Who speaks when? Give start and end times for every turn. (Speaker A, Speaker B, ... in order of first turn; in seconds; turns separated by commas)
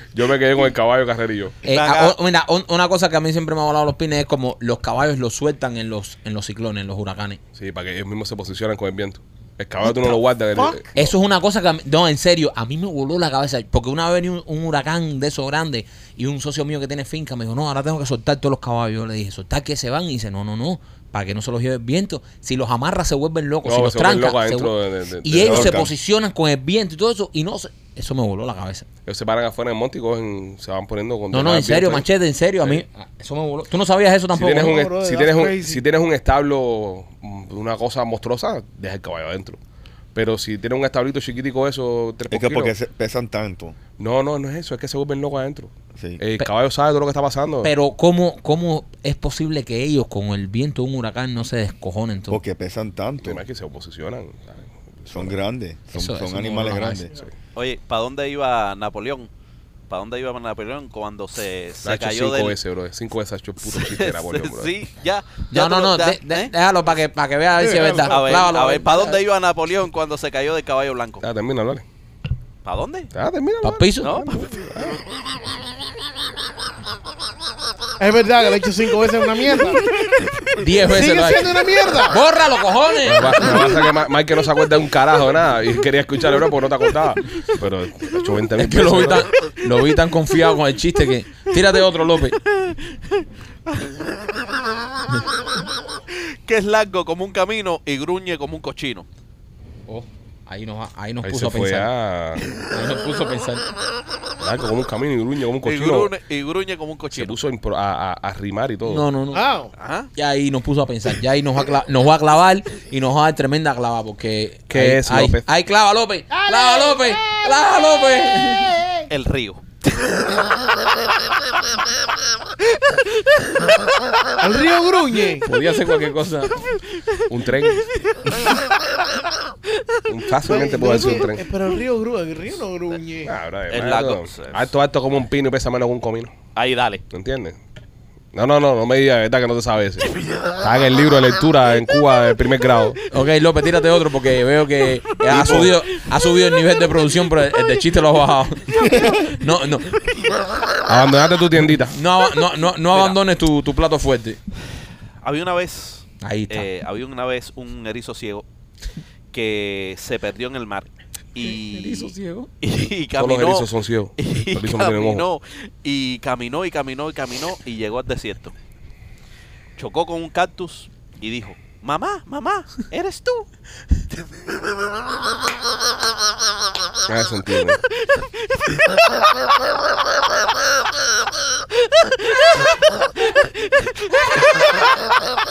Speaker A: 0.1-1.6, Speaker B: 1.6-7.4, Speaker C: 1.6-2.1, Speaker A: 7.5-11.1, Speaker D: 9.8-10.8, Speaker B: 10.9-28.9, Speaker A: 23.6-25.9, Speaker E: 25.4-25.9, Speaker A: 29.1-32.0, Speaker B: 31.3-34.8, Speaker A: 34.3-39.6, Speaker D: 34.5-35.8, Speaker A: 40.1-42.7, Speaker E: 42.3-43.8, Speaker A: 44.0-47.7, Speaker E: 45.9-46.2, Speaker B: 47.6-52.4, Speaker E: 52.3-53.4, Speaker A: 53.2-55.3, Speaker E: 55.1-57.2, Speaker B: 55.9-57.1, Speaker C: 57.5-59.3, Speaker C: 59.9-62.6, Speaker A: 61.8-64.7, Speaker C: 63.6-66.5, Speaker B: 65.5-69.2, Speaker D: 67.6-68.2, Speaker C: 68.0-71.2, Speaker A: 71.2-71.8, Speaker C: 72.6-73.1, Speaker A: 73.1-75.0, Speaker B: 73.6-74.2, Speaker C: 74.0-74.5, Speaker D: 78.0-79.8, Speaker B: 80.5-83.7, Speaker D: 80.8-82.2, Speaker A: 83.0-89.3, Speaker B: 88.5-92.4, Speaker C: 93.8-94.0, Speaker C: 96.4-99.1, Speaker B: 99.9-101.9, Speaker A: 101.2-102.4, Speaker B: 102.5-103.7, Speaker A: 104.4-106.1, Speaker C: 105.6-107.4, Speaker A: 107.1-109.1, Speaker B: 108.8-109.4, Speaker D: 109.3-109.7, Speaker C: 109.8-110.1, Speaker B: 110.1-118.7, Speaker A: 114.7-115.5, Speaker D: 116.3-117.4, Speaker D: 118.5-119.1, Speaker C: 119.1-120.3, Speaker D: 124.4-125.5, Speaker B: 125.4-126.7, Speaker A: 127.3-127.9, Speaker C: 127.9-128.6, Speaker A: 130.1-131.4, Speaker D: 130.4-133.3, Speaker A: 133.2-136.3, Speaker C: 133.7-134.7, Speaker C: 136.5-137.0, Speaker A: 137.1-137.6, Speaker A: 138.3-143.0, Speaker B: 143.1-150.0, Speaker A: 145.4-145.7, Speaker A: 150.8-152.0, Speaker B: 151.9-154.4, Speaker C: 155.2-158.4, Speaker B: 156.2-156.7, Speaker C: 159.3-168.5, Speaker B: 161.4-162.5, Speaker A: 163.2-165.3, Speaker C: 169.8-173.5, Speaker A: 177.1-177.8